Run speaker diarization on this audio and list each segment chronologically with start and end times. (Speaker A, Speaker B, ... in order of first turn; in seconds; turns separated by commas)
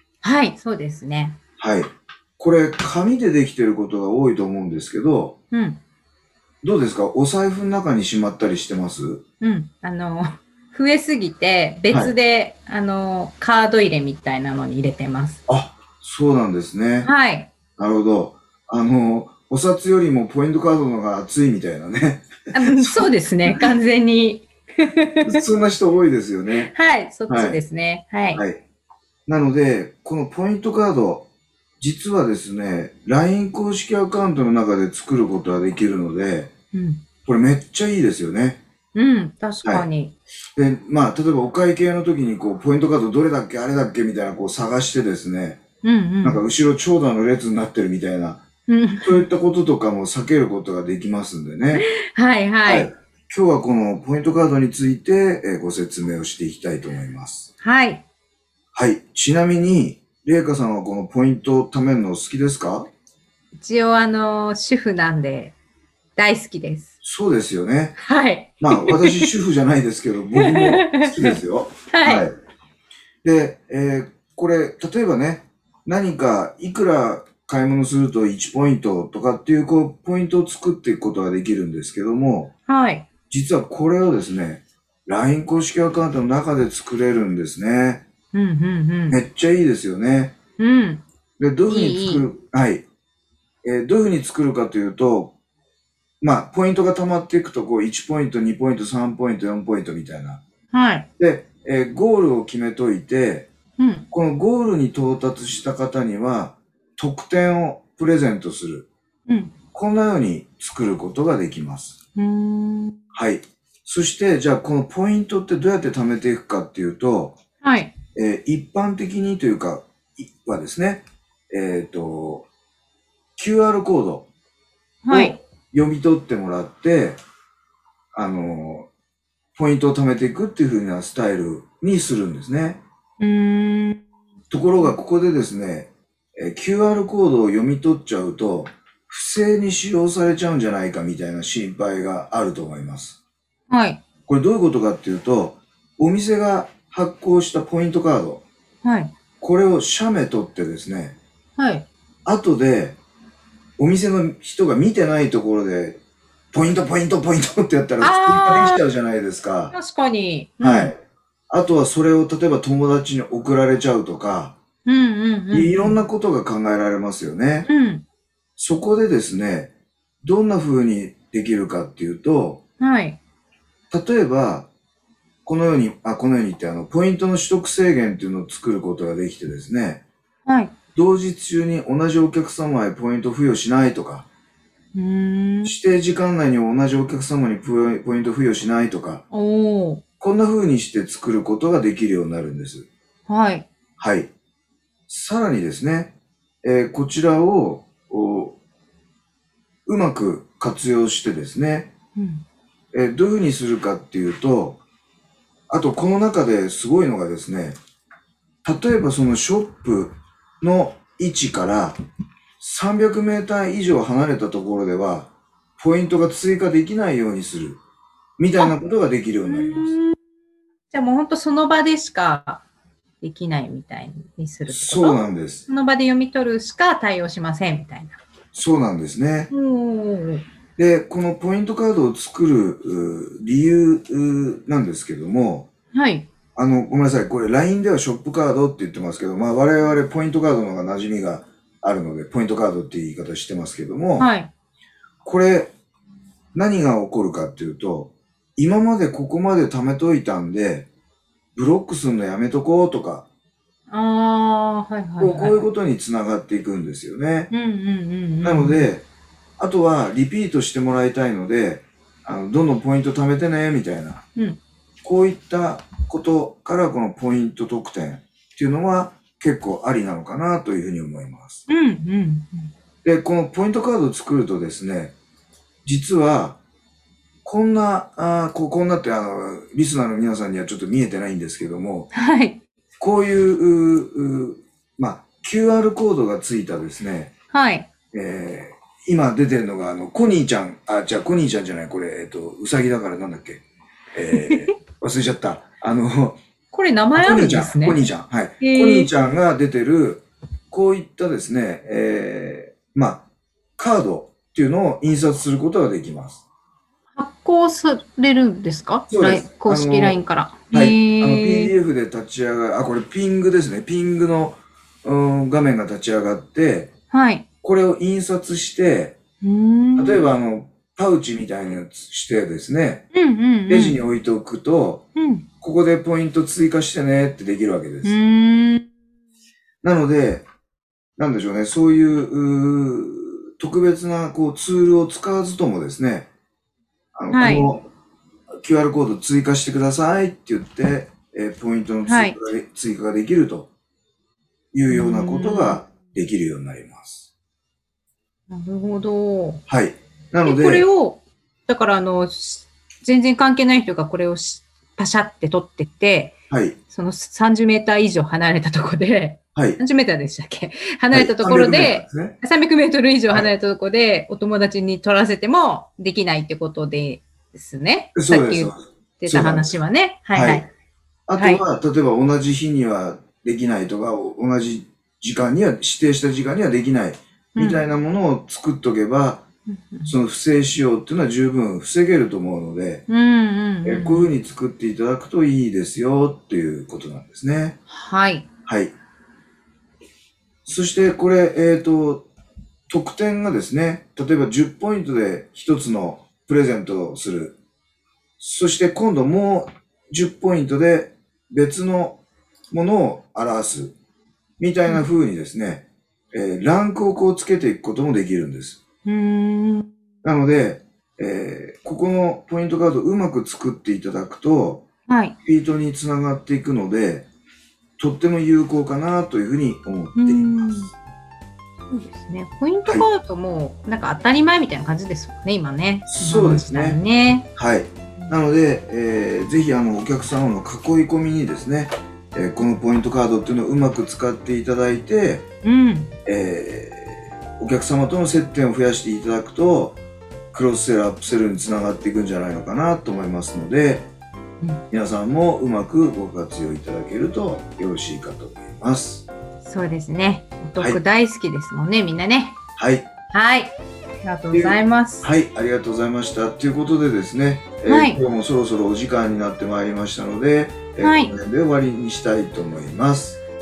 Speaker A: 0.2-1.4, Speaker B: 1.6-5.4, Speaker A: 5.5-5.8, Speaker B: 6.6-9.2, Speaker A: 9.4-15.4, Speaker B: 15.5-17.1, Speaker A: 17.0-17.5, Speaker B: 17.8-23.7, Speaker A: 22.5-25.3, Speaker B: 25.2-26.7, Speaker A: 26.7-28.4, Speaker B: 27.3-27.6, Speaker B: 28.4-28.6, Speaker B: 29.3-31.3, Speaker B: 31.8-36.5, Speaker A: 36.7-37.0, Speaker B: 37.2-38.6, Speaker A: 39.0-40.1, Speaker B: 40.6-45.6, Speaker A: 45.8-46.4, Speaker B: 46.2-48.4, Speaker A: 48.7-49.2, Speaker B: 49.0-51.9, Speaker A: 51.8-52.9, Speaker B: 52.6-57.5, Speaker A: 57.6-58.0, Speaker B: 58.7-62.9, Speaker A: 63.6-65.5, Speaker A: 66.2-66.9, Speaker B: 67.0-68.0, Speaker A: 68.0-69.3, Speaker B: 68.6-72.3, Speaker A: 70.4-71.4, Speaker A: 71.9-72.3, Speaker B: 73.2-82.5, Speaker A: 82.7-83.1, Speaker B: 83.3-88.0, Speaker A: 88.3-89.2, Speaker B: 89.1-90.3, Speaker A: 90.6-91.0, Speaker B: 91.4-92.8, Speaker A: 91.7-92.2, Speaker B: 93.6-95.3, Speaker B: 96.2-100.4, Speaker A: 100.7-101.1, Speaker B: 101.2-103.5, Speaker A: 103.8-104.1, Speaker B: 104.1-108.9, Speaker A: 109.3-109.5, Speaker B: 109.7-112.0, Speaker A: 112.2-113.0, Speaker B: 113.1-117.4, Speaker A: 117.6-117.9, Speaker B: 118.2-122.5, Speaker B: 123.4-124.3, Speaker A: 125.0-125.4, Speaker B: 125.1-127.2, Speaker B: 128.1-128.9, Speaker B: 129.6-132.8, Speaker A: 133.2-134.0, Speaker B: 134.5-143.2, Speaker A: 143.7-144.0, Speaker B: 144.3-148.4, Speaker A: 148.8-149.1, Speaker B: 149.4-151.2, Speaker A: 151.6-151.9, Speaker B: 152.3-153.0, Speaker B: 153.8-156.0, Speaker B: 156.5-159.7, Speaker A: 158.0-158.8, Speaker A: 159.7-160.9, Speaker B: 160.6-161.0, Speaker B: 161.5-164.6, Speaker A: 164.8-166.0, Speaker B: 165.5-167.7, Speaker A: 167.7-168.0, Speaker B: 168.6-172.6, Speaker A: 172.8-173.2, Speaker B: 173.9-174.7, Speaker B: 175.4-180.0, Speaker A: 180.5-180.7, Speaker B: 180.9-184.3, Speaker A: 184.9-185.8, Speaker B: 185.7-189.2, Speaker A: 189.3-190.0, Speaker B: 190.2-192.9, Speaker A: 193.3-193.7, Speaker B: 194.0-194.3, Speaker B: 195.1-198.6, Speaker B: 199.9-201.9, Speaker A: 202.2-202.4, Speaker B: 202.9-204.8, Speaker B: 205.7-207.8, Speaker B: 208.7-212.0, Speaker B: 212.6-217.8, Speaker B: 218.4-219.9, Speaker A: 219.5-220.2, Speaker A: 220.9-222.6, Speaker A: 223.2-228.2, Speaker B: 224.7-225.7, Speaker B: 228.5-229.5, Speaker A: 229.5-230.4, Speaker B: 230.8-235.7, Speaker A: 235.9-236.3, Speaker B: 236.6-244.3, Speaker A: 244.2-244.5, Speaker B: 245.2-245.7, Speaker B: 246.6-250.9, Speaker B: 251.6-253.3, Speaker A: 253.9-255.7, Speaker B: 255.2-257.5, Speaker A: 257.5-258.9, Speaker B: 258.4-259.1, Speaker B: 259.6-264.2, Speaker B: 265.0-271.6, Speaker A: 271.7-272.7, Speaker B: 273.0-275.1, Speaker B: 275.9-276.6, Speaker B: 277.4-282.1, Speaker A: 282.1-282.6, Speaker B: 283.0-287.3, Speaker A: 287.5-287.9, Speaker B: 288.1-293.6, Speaker B: 294.1-296.4, Speaker A: 294.4-294.7, Speaker A: 296.7-298.0, Speaker B: 297.1-303.3, Speaker A: 298.6-299.1, Speaker B: 303.8-306.4, Speaker A: 307.2-311.7, Speaker B: 309.1-310.2, Speaker B: 310.7-316.9, Speaker A: 317.1-317.5, Speaker B: 317.6-319.2, Speaker A: 319.4-320.3, Speaker B: 320.0-323.1, Speaker A: 323.1-324.0, Speaker B: 323.7-325.1, Speaker A: 325.2-325.5, Speaker B: 325.6-328.2, Speaker A: 328.0-328.8, Speaker B: 329.8-330.5, Speaker B: 331.2-336.3, Speaker B: 337.1-337.9, Speaker A: 337.3-337.7, Speaker B: 338.6-343.7, Speaker A: 342.1-342.4, Speaker B: 344.7-347.3, Speaker A: 344.9-345.8, Speaker A: 348.5-349.6, Speaker B: 349.7-350.9, Speaker A: 350.4-356.3, Speaker B: 356.5-356.8, Speaker A: 356.9-370.7, Speaker B: 359.6-359.8, Speaker B: 361.1-362.4, Speaker B: 368.1-369.7, Speaker B: 370.3-370.7, Speaker B: 371.3-379.4, Speaker A: 371.4-371.6, Speaker A: 377.6-377.8, Speaker A: 379.7-380.1, Speaker B: 380.1-383.0, Speaker A: 383.1-384.3, Speaker B: 383.8-387.8, Speaker A: 387.9-388.5, Speaker B: 388.7-388.9, Speaker B: 390.6-392.3, Speaker B: 392.9-397.6, Speaker B: 398.4-403.9, Speaker B: 404.6-408.8, Speaker A: 409.1-409.9, Speaker B: 410.2-414.9, Speaker A: 415.1-415.4, Speaker B: 415.4-417.3, Speaker B: 418.0-420.9, Speaker A: 420.2-420.9, Speaker A: 421.9-427.5, Speaker B: 426.1-427.0, Speaker B: 427.6-435.5, Speaker A: 435.6-436.1, Speaker B: 436.2-440.0, Speaker B: 440.5-444.1, Speaker B: 444.9-449.3, Speaker A: 449.6-452.6, Speaker B: 452.8-453.1, Speaker A: 453.3-455.3, Speaker B: 454.5-463.4, Speaker A: 457.9-458.2, Speaker A: 461.0-461.3